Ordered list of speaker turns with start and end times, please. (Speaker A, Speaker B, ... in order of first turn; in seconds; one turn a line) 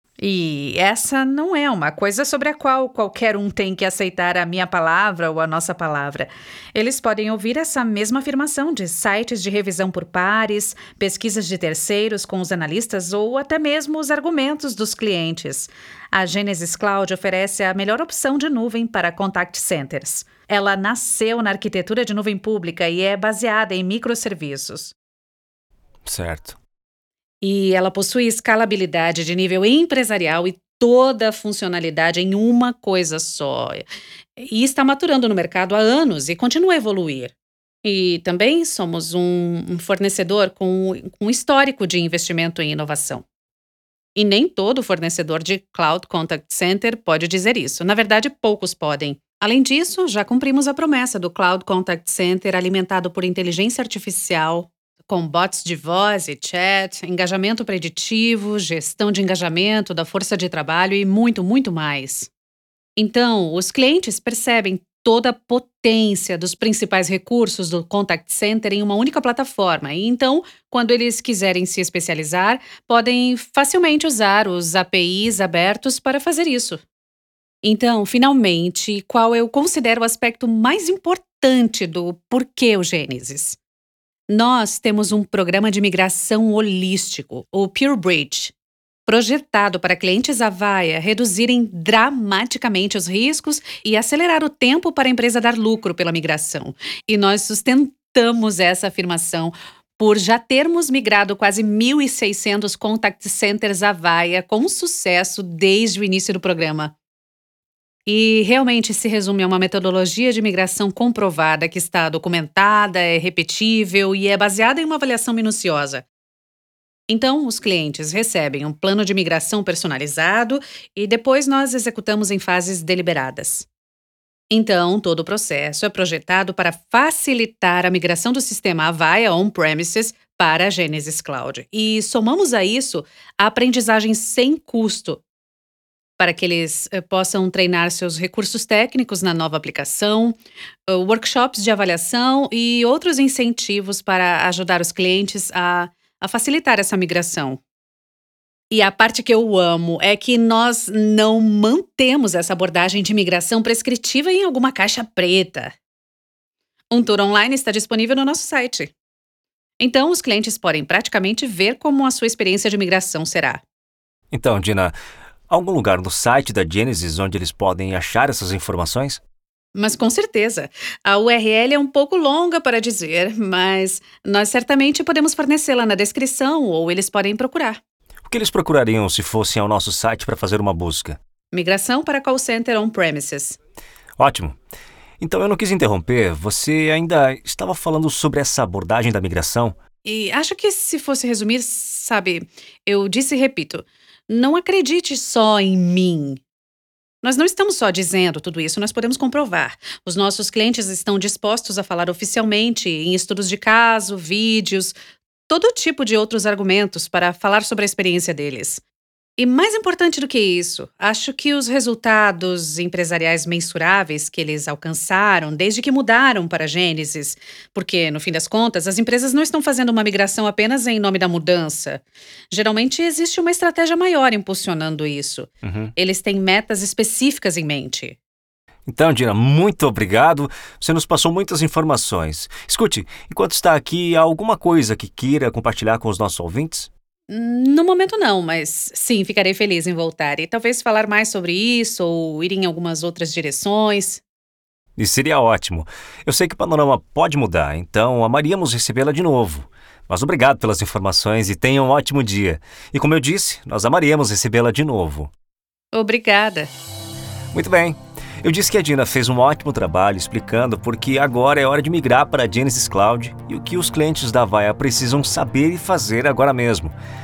Speaker A: 0.2-24.9
Speaker B: 26.1-26.6
Speaker A: 27.4-33.9
Speaker A: 34.4-37.3
Speaker A: 37.8-43.2
Speaker A: 44.1-62.3
Speaker A: 63.0-76.8
Speaker A: 77.6-83.6
Speaker A: 84.3-88.5
Speaker A: 89.1-106.9
Speaker A: 108.1-116.0
Speaker A: 117.1-123.7
Speaker A: 124.5-135.2
Speaker A: 136.2-147.6
Speaker A: 148.7-155.8
Speaker A: 156.9-158.9
Speaker A: 159.8-163.6
Speaker B: 164.3-164.9
Speaker B: 165.5-169.2
Speaker A: 169.8-177.8
Speaker B: 178.3-181.2
Speaker A: 181.5-183.6
Speaker B: 184.2-184.6
Speaker B: 185.2-189.8
Speaker A: 190.0-196.4
Speaker A: 197.2-204.9
Speaker A: 205.5-208.8
Speaker A: 209.4-228.2
Speaker B: 225.6-225.9
Speaker B: 228.9-236.9
Speaker A: 237.3-244.2
Speaker B: 245.0-255.3
Speaker A: 255.9-256.7
Speaker B: 257.5-266.9